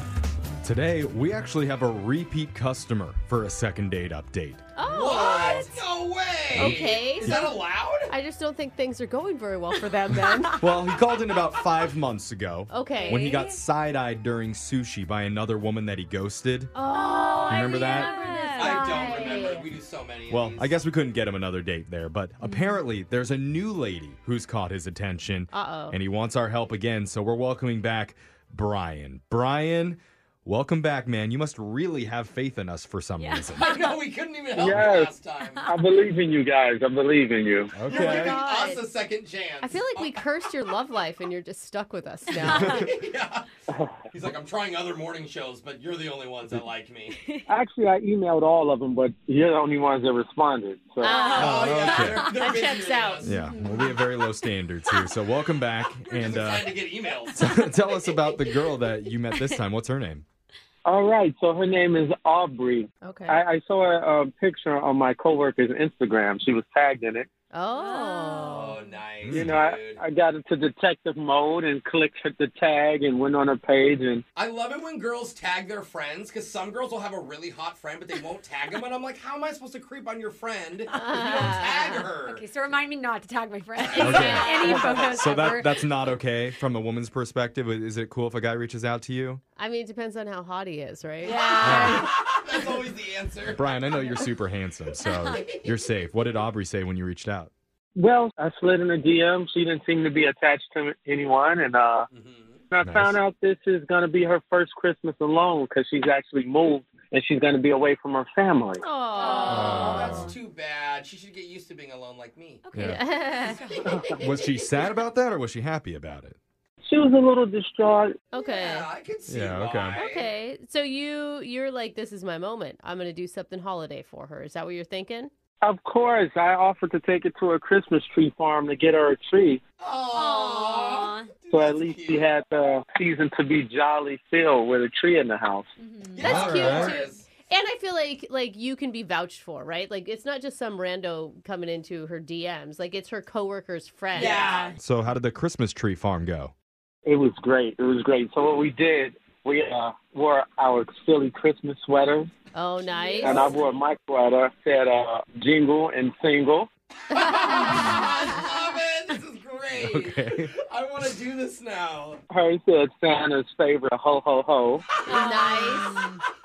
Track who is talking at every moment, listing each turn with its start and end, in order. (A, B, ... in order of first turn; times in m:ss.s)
0:00.6-0:04.6 A
0:04.8-0:05.8 B
0:04.8-0:08.1 C
0:06.5-0:07.5 A
0:06.5-0:10.6 B
0:10.6-0:16.7 A
0:12.7-0:13.2 B
0:12.9-0:13.6 D
0:16.7-0:19.6 B
0:17.5-0:18.1 A
0:17.5-0:19.0 D
0:18.6-0:20.8 C
0:20.3-0:33.6 A
0:22.4-0:22.8 D
0:25.5-0:26.0 B
0:33.2-0:34.0 D
0:33.5-0:35.8 C
0:34.6-0:35.1 E
0:35.5-0:35.8 D
0:35.7-0:37.7 E
0:37.7-0:38.4 A
0:37.8-0:40.2 C
0:37.9-0:38.8 B
0:39.6-0:42.8 B
0:42.3-0:43.4 C
0:42.4-0:42.9 D
0:42.5-0:42.8 A
0:43.7-0:44.0 E
0:44.1-0:47.2 C
0:47.2-0:47.4 D
0:47.5-0:51.1 E
0:51.0-0:53.4 B
0:51.0-0:52.2 D
0:51.2-0:53.5 C
0:51.4-0:52.3 A
0:53.2-0:56.7 A
0:53.4-0:55.2 D
0:56.2-0:57.4 C
0:57.3-1:00.2 A
0:57.4-0:59.6 D
1:00.8-1:07.3 E
1:03.0-1:03.4 B
1:07.5-1:08.8 B
1:07.7-1:09.0 D
1:08.4-1:10.0 C
1:09.2-1:09.6 A
1:09.4-1:14.2 E
1:14.4-1:22.5 C
1:20.9-1:21.4 D
1:20.9-1:22.0 B
1:22.2-1:25.9 D
1:23.8-1:25.2 C
1:24.0-1:29.4 A
1:24.1-1:24.9 B
1:29.6-1:32.0 B
1:31.2-1:32.1 D
1:31.3-1:34.2 C
1:31.6-1:32.1 A
1:33.5-1:37.5 A
1:35.0-1:35.4 D
1:35.4-1:35.6 C
1:38.0-1:42.1 E
1:42.1-1:42.6 C
1:42.7-1:48.8 E
1:42.8-1:43.1 A
1:48.8-1:50.3 B
1:49.2-1:50.1 D
1:49.4-1:52.6 C
1:49.4-1:50.4 A
1:52.6-1:53.9 D
1:52.7-1:53.0 A
1:52.8-1:53.6 B
1:53.5-1:54.9 C
1:53.9-1:54.2 E
1:54.2-1:56.4 A
1:56.8-1:58.2 E
1:58.3-1:58.9 B
1:58.4-2:00.3 C
1:59.3-2:00.0 A
2:00.0-2:05.3 B
2:05.6-2:09.6 E
2:09.8-2:12.3 C
2:10.1-2:11.3 D
2:11.5-2:15.7 E
2:15.8-2:16.3 D
2:16.1-2:17.3 C
2:16.2-2:17.0 A
2:16.2-2:24.7 B
2:24.1-2:24.8 C
2:24.8-2:26.5 A
2:27.0-2:32.3 E
2:32.5-2:33.5 B
2:32.8-2:33.5 D
2:33.2-2:36.7 E
2:37.1-2:42.2 C
2:37.1-2:38.5 B
2:39.8-2:40.5 A
2:42.3-2:44.9 E
2:45.0-2:46.2 D
2:45.1-2:46.0 B